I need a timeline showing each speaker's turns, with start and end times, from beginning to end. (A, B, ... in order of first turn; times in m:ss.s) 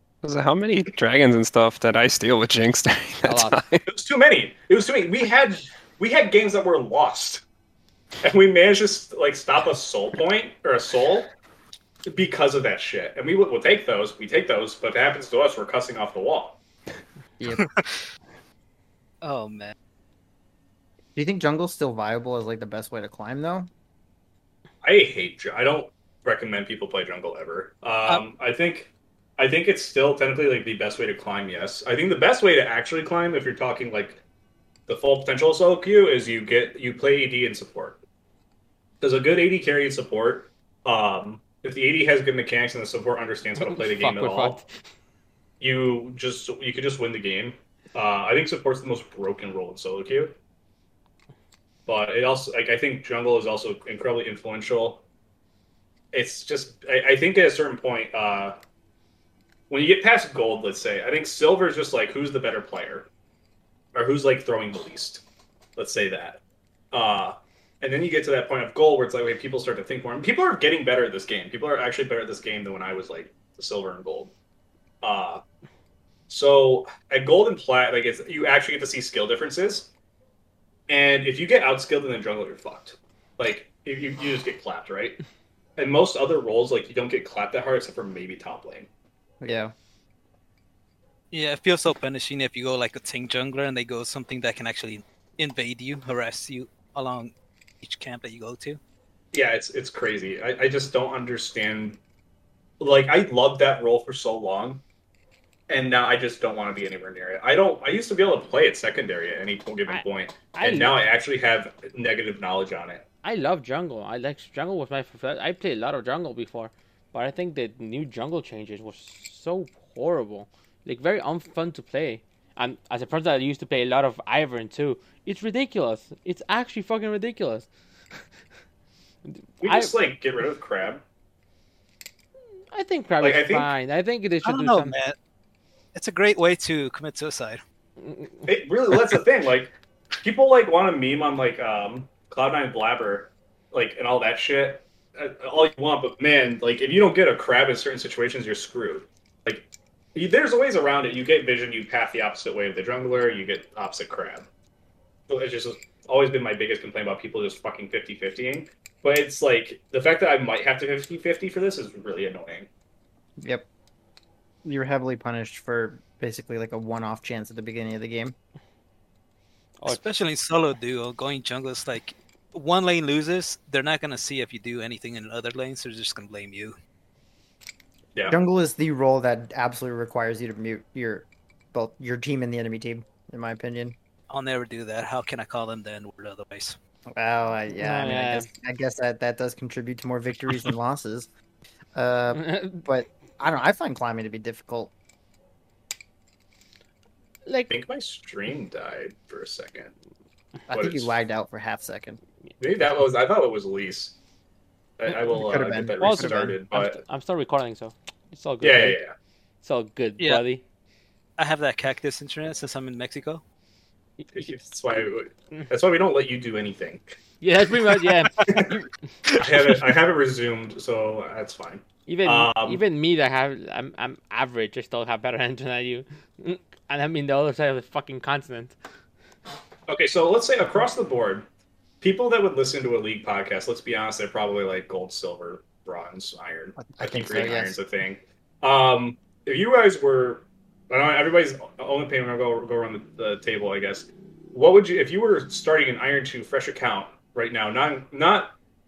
0:00.2-0:03.9 A
0:03.2-0:03.6 B
0:03.9-0:07.4 C
0:08.2-0:11.3 C
0:12.1-0:16.6 C
0:17.4-0:17.6 D
0:17.5-0:17.9 E
0:19.2-0:19.7 E
0:21.2-0:23.7 D
0:24.8-0:34.2 C
0:34.9-0:38.0 C
0:39.0-0:44.6 C
0:43.6-0:44.7 B
0:45.6-0:50.4 C
0:51.9-0:55.0 C
0:56.1-0:58.6 C
0:59.7-1:03.1 C
1:03.9-1:05.2 C
1:05.8-1:06.4 C
1:06.9-1:14.3 C
1:15.0-1:15.4 C
1:16.3-1:19.9 C
1:20.9-1:25.2 C
1:25.8-1:28.9 C
1:29.4-1:29.7 D
1:31.3-1:38.8 E
1:39.3-1:42.0 C
1:42.8-1:44.8 C
1:45.7-1:53.0 C
1:49.9-1:51.0 B
1:53.2-2:07.7 B
2:09.6-2:09.9 B
2:09.6-2:11.0 C
2:12.7-2:15.0 B
2:13.2-2:13.7 C
2:14.4-2:15.2 E
2:16.0-2:17.6 E
2:18.5-2:34.5 C
2:35.3-2:42.7 C
2:43.4-2:43.7 D
2:44.6-2:48.4 D
2:49.8-2:56.8 E
2:58.3-3:04.0 D
3:04.3-3:06.8 E
3:07.1-3:11.3 D
3:07.7-3:08.5 B
3:12.0-3:14.9 D
3:12.3-3:12.8 B
3:17.5-3:17.7 B
3:17.7-3:19.9 C
3:20.7-3:22.2 D
3:20.7-3:21.2 C
3:22.6-3:24.2 C
3:25.0-3:27.0 C
3:25.1-3:26.6 D
3:26.0-3:29.0 B
3:28.6-3:29.2 C
3:29.6-3:30.6 B
3:31.4-3:33.4 E
3:34.3-3:37.2 C
3:37.4-3:38.9 B
3:38.0-3:38.6 E
3:39.4-3:42.8 C
3:42.1-3:48.8 B
3:49.9-3:51.5 C
3:52.0-4:08.6 C
3:56.8-3:57.8 D